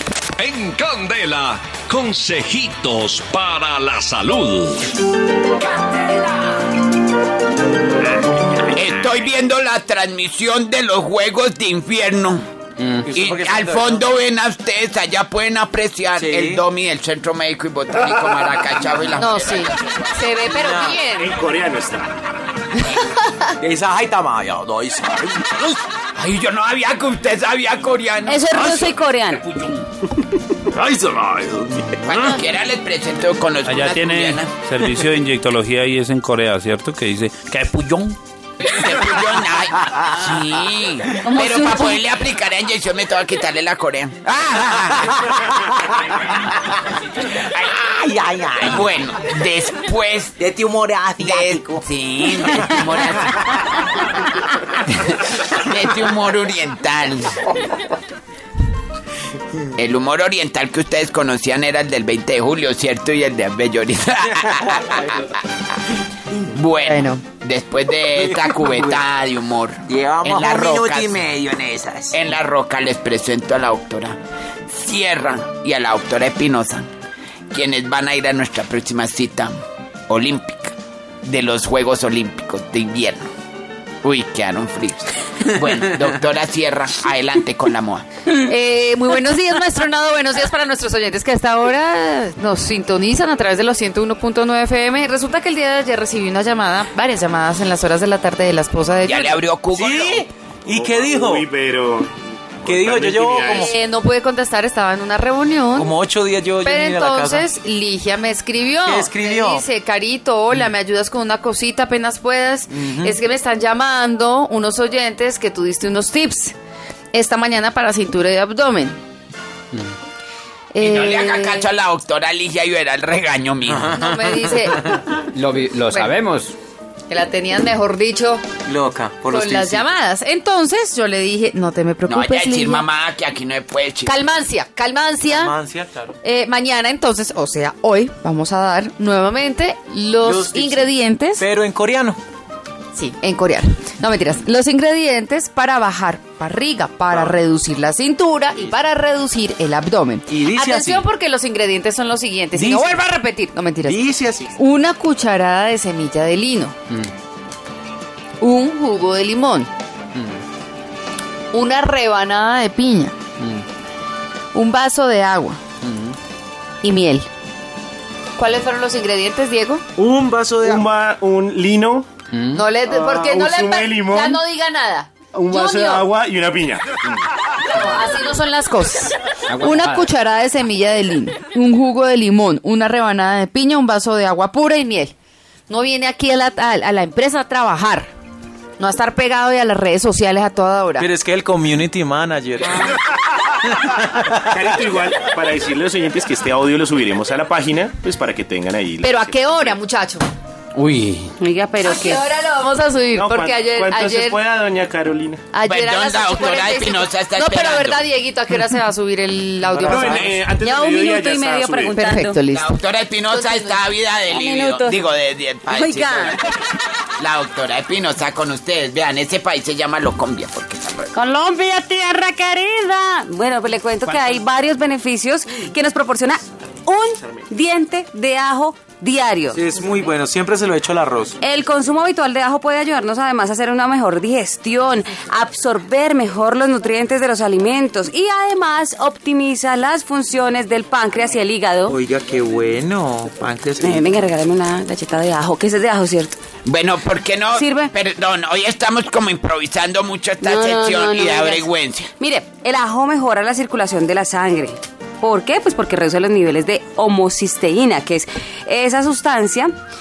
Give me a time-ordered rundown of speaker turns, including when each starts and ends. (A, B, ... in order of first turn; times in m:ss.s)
0:00.4-0:04.8 A
0:08.6-0:12.4 B
0:13.0-0:14.0 C
0:13.1-0:20.2 B
0:16.1-0:16.6 C
0:19.2-0:21.4 D
0:20.5-0:21.0 C
0:21.2-0:22.1 E
0:23.6-0:25.6 C
0:26.2-0:29.8 B
0:28.2-0:29.4 F
0:30.7-0:32.1 C
0:32.0-0:34.5 B
0:33.6-0:38.2 G
0:38.6-0:45.4 B
0:41.2-0:42.0 F
0:47.6-0:48.9 C
0:48.6-0:50.4 B
0:50.4-0:51.8 C
0:51.2-0:54.0 B
0:54.9-0:57.5 B
0:59.8-1:05.4 B
1:06.4-1:11.3 B
1:06.8-1:07.2 D
1:08.1-1:09.0 C
1:09.9-1:12.2 C
1:12.1-1:14.2 B
1:14.7-1:16.9 B
1:17.5-1:19.5 B
1:20.1-1:23.2 B
1:24.0-1:28.0 B
1:28.3-1:39.4 D
1:39.0-1:40.2 B
1:39.7-1:41.5 C
1:40.7-1:42.1 E
1:42.6-1:43.7 E
1:42.6-1:43.7 C
1:43.5-1:45.9 D
1:45.8-1:47.5 C
1:46.6-1:56.6 D
1:48.8-1:49.6 C
1:52.7-1:53.2 C
1:57.1-1:59.0 D
2:00.7-2:01.7 D
2:00.8-2:04.0 B
2:03.7-2:05.0 C
2:03.9-2:05.0 D
2:05.3-2:06.5 H
2:05.8-2:06.2 D
2:07.1-2:08.4 D
2:08.7-2:10.0 C
2:09.3-2:12.9 D
2:12.1-2:14.1 B
2:14.0-2:15.5 D
2:15.3-2:16.2 C
2:16.2-2:21.4 D
2:20.2-2:22.2 C
2:22.9-2:34.0 D
2:30.3-2:31.1 C
2:32.5-2:33.0 C
2:33.8-2:34.5 C
2:34.5-2:36.8 D
2:38.4-2:39.7 D
2:41.5-2:43.2 D
2:44.5-2:45.6 D
2:46.8-2:47.3 D
2:48.4-2:49.8 D
2:50.0-2:50.8 C
2:50.3-2:52.1 E
2:52.4-2:52.6 H
2:52.5-2:56.1 D
2:52.8-2:54.4 E
2:55.3-2:57.1 E
2:57.7-3:05.1 D
2:59.5-3:00.1 H
3:05.7-3:08.1 D
3:08.8-3:11.1 D
3:11.0-3:13.0 C
3:13.7-3:14.3 C
3:14.5-3:19.8 E
3:19.0-3:20.3 D
3:20.8-3:21.3 H
3:20.9-3:22.2 F
3:21.8-3:24.4 D
3:23.2-3:25.4 E
3:25.5-3:30.3 D
3:25.6-3:28.0 B
3:29.7-3:32.0 E
3:30.5-3:32.4 F
3:31.9-3:33.8 D
3:32.5-3:36.5 B
3:34.3-3:35.1 F
3:35.7-3:36.4 F
3:37.2-3:41.1 B
3:41.1-3:49.6 F
3:49.5-3:51.4 C
3:51.4-4:02.0 F
4:01.9-4:04.0 C
4:03.8-4:06.4 F
4:06.6-4:12.1 B
4:07.5-4:07.9 F
4:10.4-4:19.7 F